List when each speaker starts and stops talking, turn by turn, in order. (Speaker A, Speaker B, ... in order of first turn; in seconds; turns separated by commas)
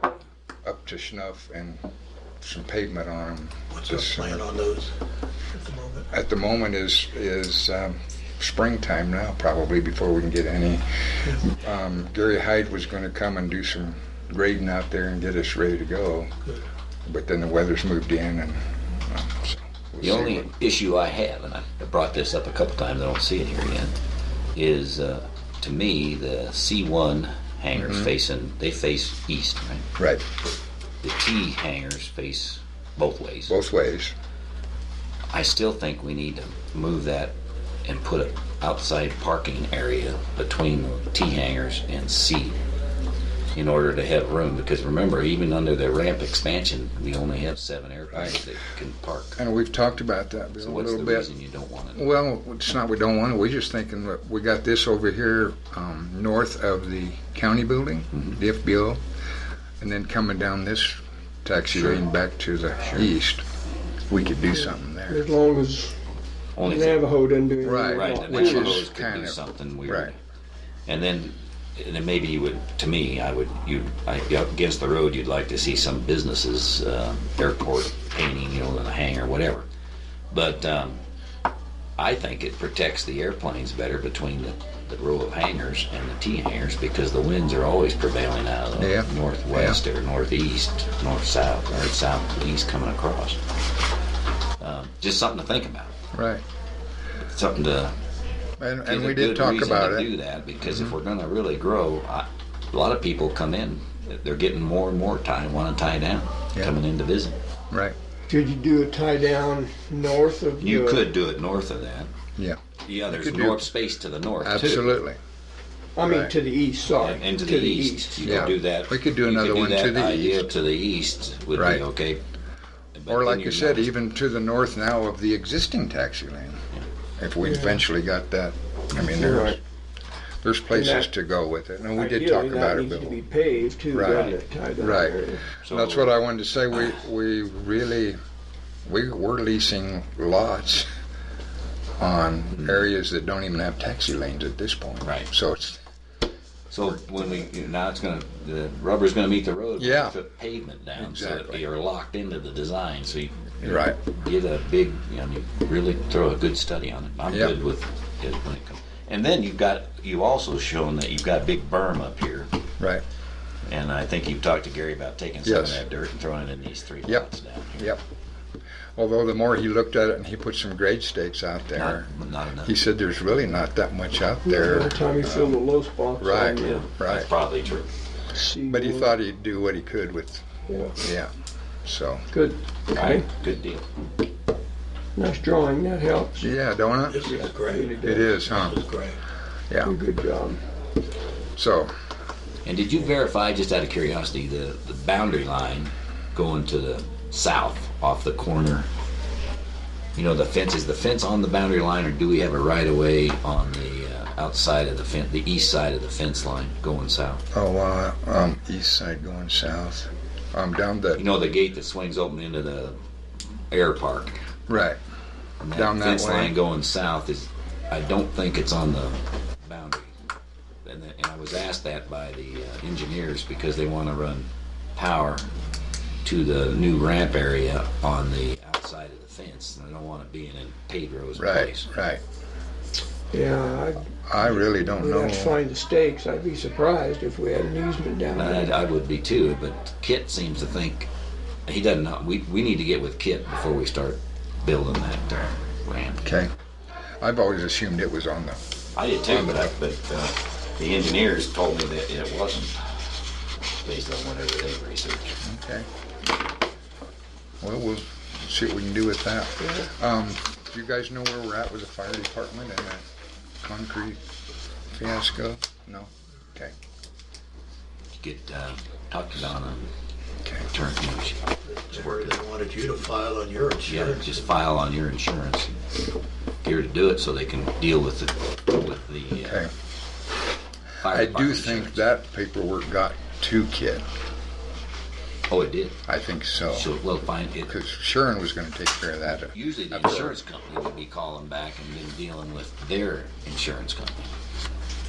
Speaker A: 0.6-1.8, Speaker A: 2.4-4.5, Speaker B: 3.7-4.9, Speaker B: 5.5-6.1, Speaker A: 6.1-16.3, Speaker A: 17.1-20.5, Speaker C: 20.0-23.9, Speaker C: 24.6-29.9, Speaker A: 27.8-28.1, Speaker A: 30.0-30.2, Speaker C: 31.0-33.5, Speaker A: 33.5-34.1, Speaker C: 35.3-37.3, Speaker C: 37.9-42.6, Speaker C: 43.5-49.4, Speaker A: 48.1-48.4, Speaker A: 49.4-51.3, Speaker C: 50.6-52.0, Speaker A: 52.0-59.0, Speaker A: 59.8-63.5, Speaker C: 61.7-62.0, Speaker C: 62.9-63.1, Speaker A: 64.1-65.3, Speaker D: 64.5-66.0, Speaker C: 66.6-67.0, Speaker D: 66.6-68.8, Speaker A: 67.6-70.1, Speaker C: 67.9-70.2, Speaker C: 70.9-79.7, Speaker C: 80.3-81.0, Speaker C: 82.0-93.4, Speaker A: 88.8-89.8, Speaker C: 94.6-96.0, Speaker A: 96.1-96.4, Speaker C: 97.2-97.9, Speaker A: 98.6-100.1, Speaker C: 98.8-107.4, Speaker A: 100.7-100.9, Speaker D: 108.3-111.0, Speaker C: 110.6-112.1, Speaker A: 112.4-113.7, Speaker C: 112.8-114.9, Speaker A: 114.4-115.2, Speaker D: 116.0-118.4, Speaker A: 116.0-116.3, Speaker C: 116.9-122.2, Speaker A: 118.2-120.5, Speaker A: 121.5-121.8, Speaker C: 123.0-123.9, Speaker A: 123.1-126.6, Speaker A: 127.2-129.6, Speaker D: 127.4-127.8, Speaker D: 129.1-129.6, Speaker A: 130.4-133.2, Speaker D: 130.7-131.1, Speaker D: 131.9-135.4, Speaker A: 133.9-138.2, Speaker C: 134.1-135.0, Speaker C: 135.6-136.2, Speaker C: 136.7-137.0, Speaker A: 138.9-140.9, Speaker A: 142.0-145.8, Speaker C: 142.6-142.9, Speaker C: 145.0-145.3, Speaker C: 146.7-162.5, Speaker A: 149.8-150.2, Speaker A: 151.0-151.7, Speaker A: 153.6-154.0, Speaker A: 157.3-157.6, Speaker C: 163.7-167.9, Speaker A: 165.4-165.8, Speaker A: 167.1-168.0, Speaker A: 169.0-172.1, Speaker C: 171.8-172.8, Speaker A: 172.6-175.5, Speaker D: 174.4-176.9, Speaker A: 176.2-177.3, Speaker C: 176.6-177.9, Speaker D: 178.3-179.1, Speaker A: 178.7-181.3, Speaker D: 180.7-181.0, Speaker A: 181.8-182.3, Speaker D: 182.3-183.3, Speaker C: 182.9-183.8, Speaker D: 185.2-186.4, Speaker A: 186.4-187.3, Speaker B: 187.0-189.2, Speaker D: 187.2-188.4, Speaker A: 188.0-188.8, Speaker A: 189.7-189.9, Speaker D: 189.8-190.6, Speaker A: 191.6-191.9, Speaker C: 192.7-198.9, Speaker C: 200.2-207.4, Speaker A: 207.5-211.2, Speaker C: 211.2-213.0, Speaker C: 213.7-214.3, Speaker A: 214.7-215.0, Speaker C: 215.6-220.1, Speaker A: 215.7-216.6, Speaker C: 220.8-225.5, Speaker C: 226.2-231.9, Speaker A: 231.4-232.2, Speaker D: 233.3-238.7, Speaker A: 234.3-235.6, Speaker C: 238.3-241.1, Speaker C: 241.7-246.3, Speaker A: 246.2-246.5, Speaker A: 247.2-248.6, Speaker C: 249.0-253.1, Speaker A: 249.3-249.7, Speaker C: 253.8-255.4, Speaker A: 255.4-255.9, Speaker A: 257.6-263.1, Speaker D: 259.6-259.9, Speaker A: 263.6-264.2, Speaker A: 264.9-266.7, Speaker C: 268.2-269.9, Speaker A: 270.4-270.7, Speaker C: 270.7-271.9, Speaker B: 271.7-274.4, Speaker C: 273.9-275.7, Speaker C: 276.6-279.7, Speaker A: 279.4-279.7, Speaker C: 281.0-282.1, Speaker A: 281.1-284.0, Speaker C: 285.5-286.0, Speaker A: 286.1-286.9, Speaker C: 286.7-287.7, Speaker A: 287.7-290.4, Speaker C: 289.5-294.3